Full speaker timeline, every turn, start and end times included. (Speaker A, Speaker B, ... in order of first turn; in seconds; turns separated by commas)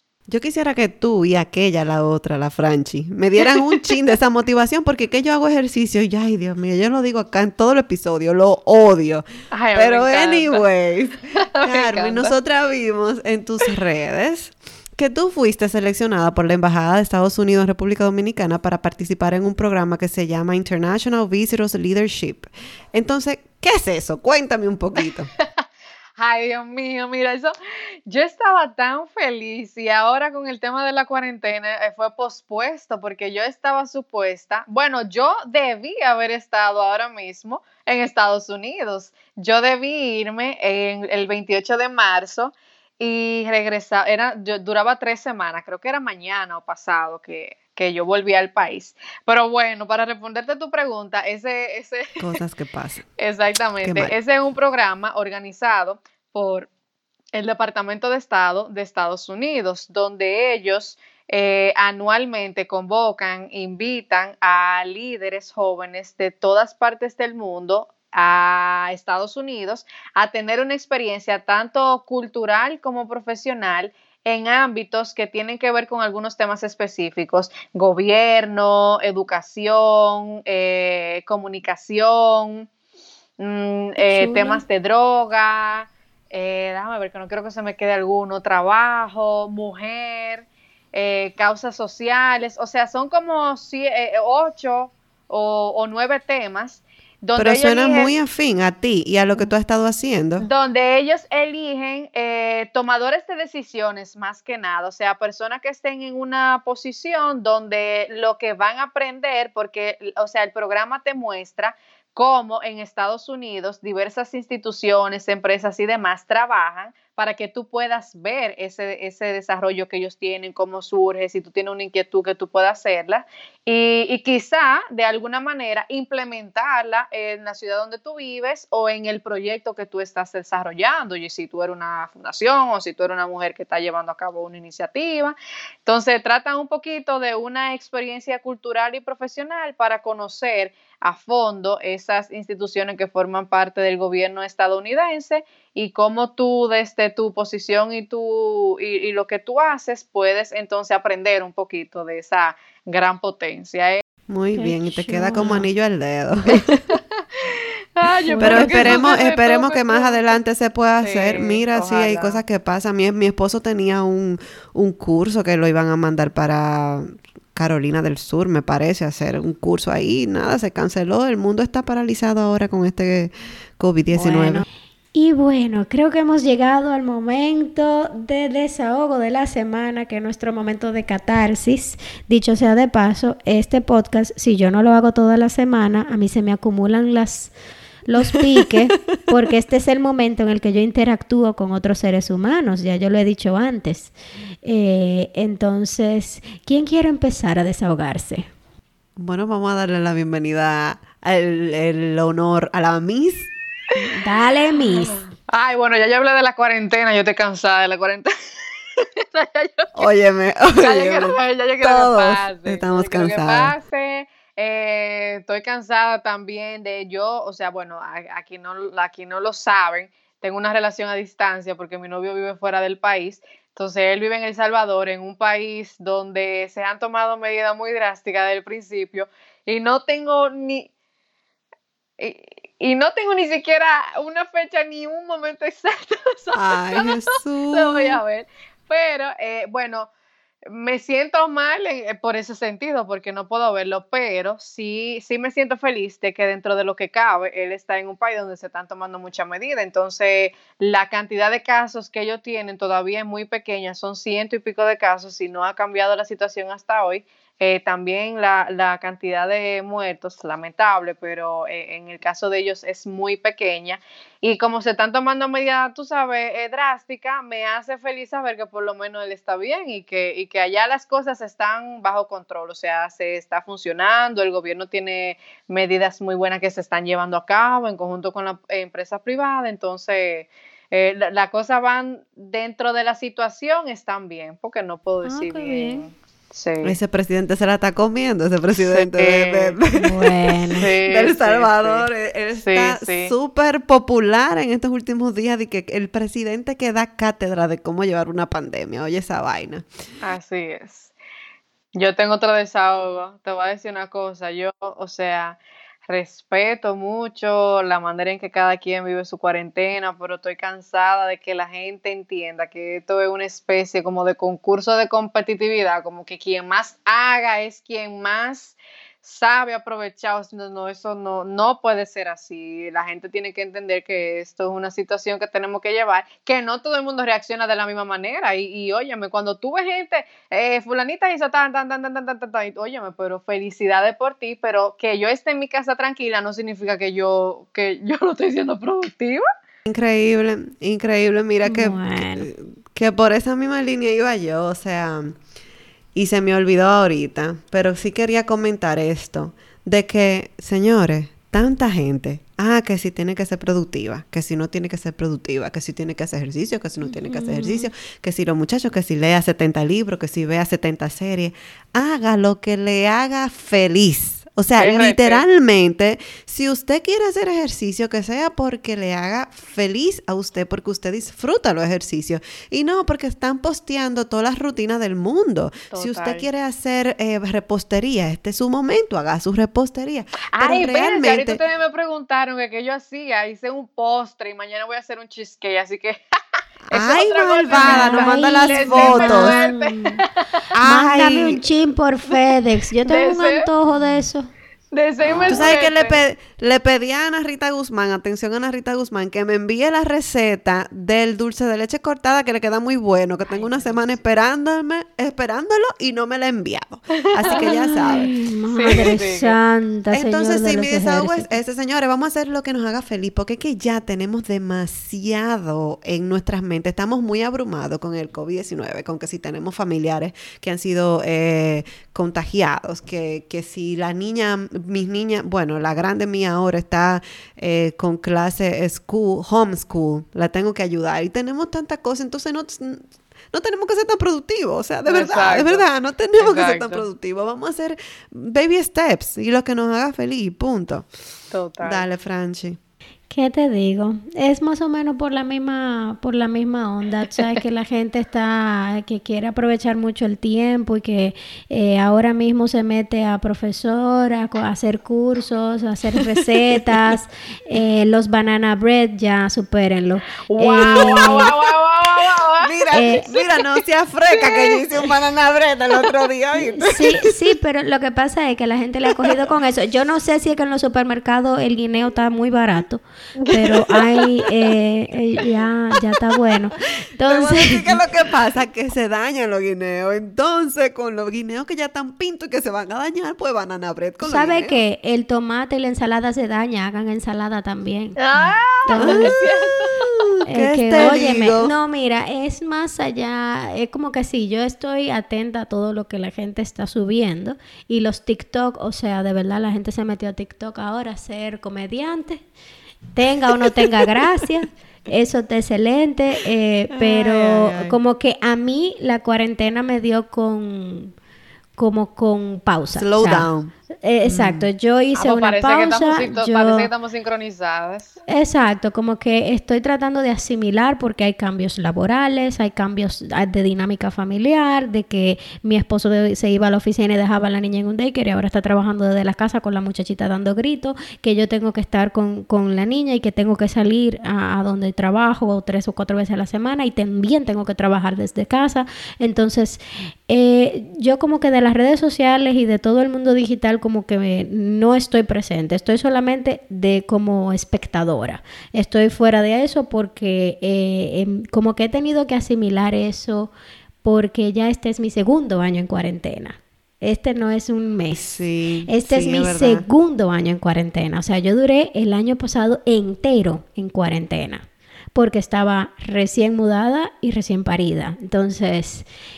Speaker A: 0.3-25.3, Speaker B: 9.5-10.6, Speaker B: 11.4-12.3, Speaker B: 26.2-27.6, Speaker B: 28.1-52.4, Speaker A: 52.2-53.1, Speaker B: 53.2-56.7, Speaker A: 53.8-54.1, Speaker B: 57.3-82.7, Speaker B: 83.4-98.1, Speaker C: 84.0-84.6, Speaker A: 97.4-100.5, Speaker B: 100.4-154.0, Speaker A: 154.3-156.6, Speaker C: 154.6-155.7, Speaker B: 156.9-160.4, Speaker C: 158.2-159.1, Speaker A: 158.4-174.6, Speaker B: 161.0-162.4, Speaker C: 174.1-187.5, Speaker C: 188.1-194.1, Speaker C: 194.7-198.5, Speaker A: 199.2-203.5, Speaker C: 203.9-205.2, Speaker B: 205.0-208.3, Speaker B: 208.9-210.0, Speaker A: 210.0-213.7, Speaker B: 210.7-230.9, Speaker B: 232.2-237.2, Speaker A: 236.6-238.2, Speaker B: 237.7-240.1, Speaker B: 240.7-287.0, Speaker C: 285.2-286.1, Speaker A: 286.8-299.9, Speaker B: 288.9-289.8, Speaker C: 289.9-290.9, Speaker B: 290.8-293.3, Speaker B: 300.2-301.1, Speaker B: 301.9-339.4, Speaker A: 339.9-345.4, Speaker C: 341.6-342.5, Speaker A: 346.1-381.6, Speaker C: 357.0-357.9, Speaker B: 364.8-365.4, Speaker B: 375.9-376.4, Speaker B: 380.5-386.2, Speaker A: 386.9-389.5, Speaker B: 386.9-390.6, Speaker C: 387.7-390.2, Speaker A: 390.7-391.6, Speaker C: 390.8-394.5, Speaker B: 393.0-393.7, Speaker B: 394.9-396.2, Speaker A: 395.4-408.3, Speaker B: 407.4-409.6, Speaker C: 407.5-411.6, Speaker A: 410.1-441.1, Speaker B: 435.1-435.9, Speaker B: 436.4-437.1, Speaker B: 441.5-442.1, Speaker A: 441.8-442.8, Speaker C: 443.3-461.5, Speaker B: 460.5-463.7, Speaker A: 460.8-461.5, Speaker A: 462.6-467.3, Speaker C: 462.9-463.3, Speaker B: 464.3-464.8, Speaker C: 466.6-478.0, Speaker B: 473.4-474.3, Speaker A: 477.2-484.8, Speaker C: 484.2-488.2, Speaker B: 488.2-490.1, Speaker C: 488.8-489.4, Speaker A: 489.0-491.7, Speaker C: 490.5-502.4, Speaker C: 503.1-511.1, Speaker A: 506.9-508.0, Speaker C: 511.8-513.5, Speaker A: 513.0-514.7, Speaker C: 514.0-516.9, Speaker B: 515.1-518.2, Speaker C: 518.3-553.5, Speaker C: 554.0-558.3, Speaker A: 558.1-559.9, Speaker C: 558.9-569.1